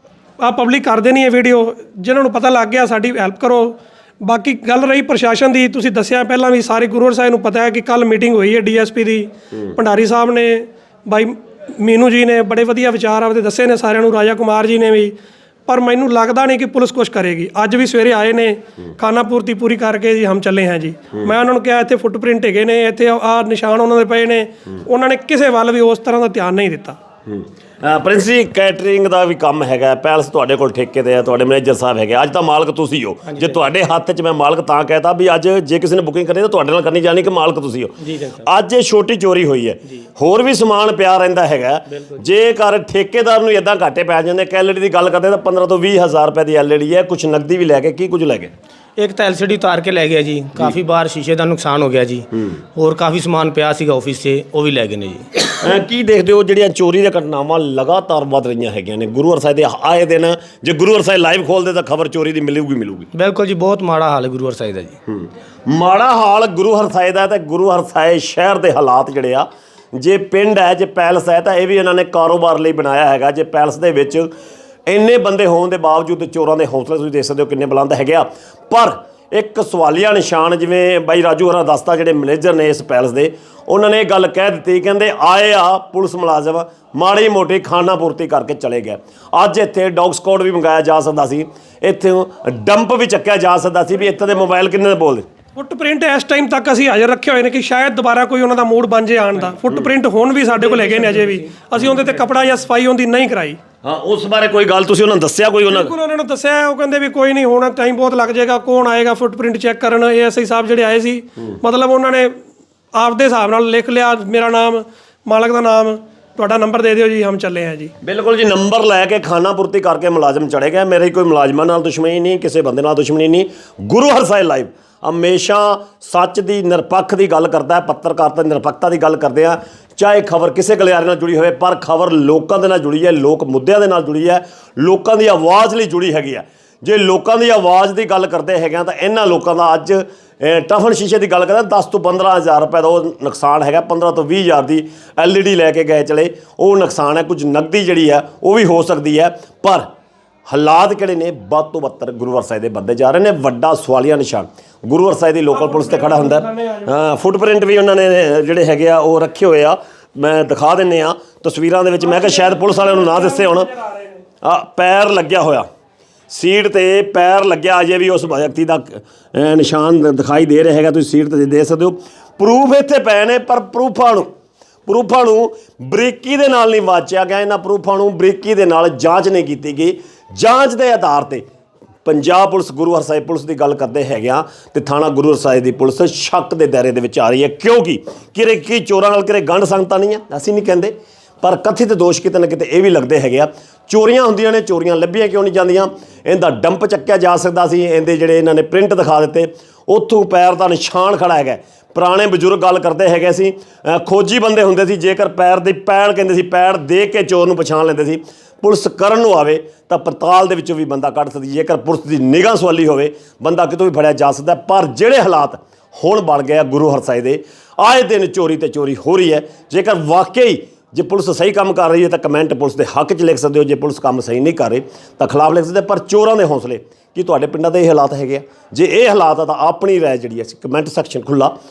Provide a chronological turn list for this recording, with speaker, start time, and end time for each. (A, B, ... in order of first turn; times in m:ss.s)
0:00.4-0:15.2 A
0:15.7-0:27.0 A
0:27.3-0:48.5 B
0:33.3-0:33.6 C
0:38.0-0:38.4 C
0:41.9-0:42.2 C
0:49.0-0:55.4 C
0:55.6-1:03.1 B
1:03.1-1:05.0 C
1:05.1-1:14.3 B
1:14.9-1:35.3 B
1:35.6-1:43.6 A
1:43.8-1:45.9 B
1:45.7-1:52.3 A
1:52.9-1:57.9 A
1:58.0-2:29.9 B
2:30.5-2:43.7 B
2:35.5-2:36.9 A
2:42.0-2:44.2 A
2:44.4-2:45.7 B
2:46.3-2:54.3 B
2:54.9-3:01.4 B
3:02.0-3:51.5 B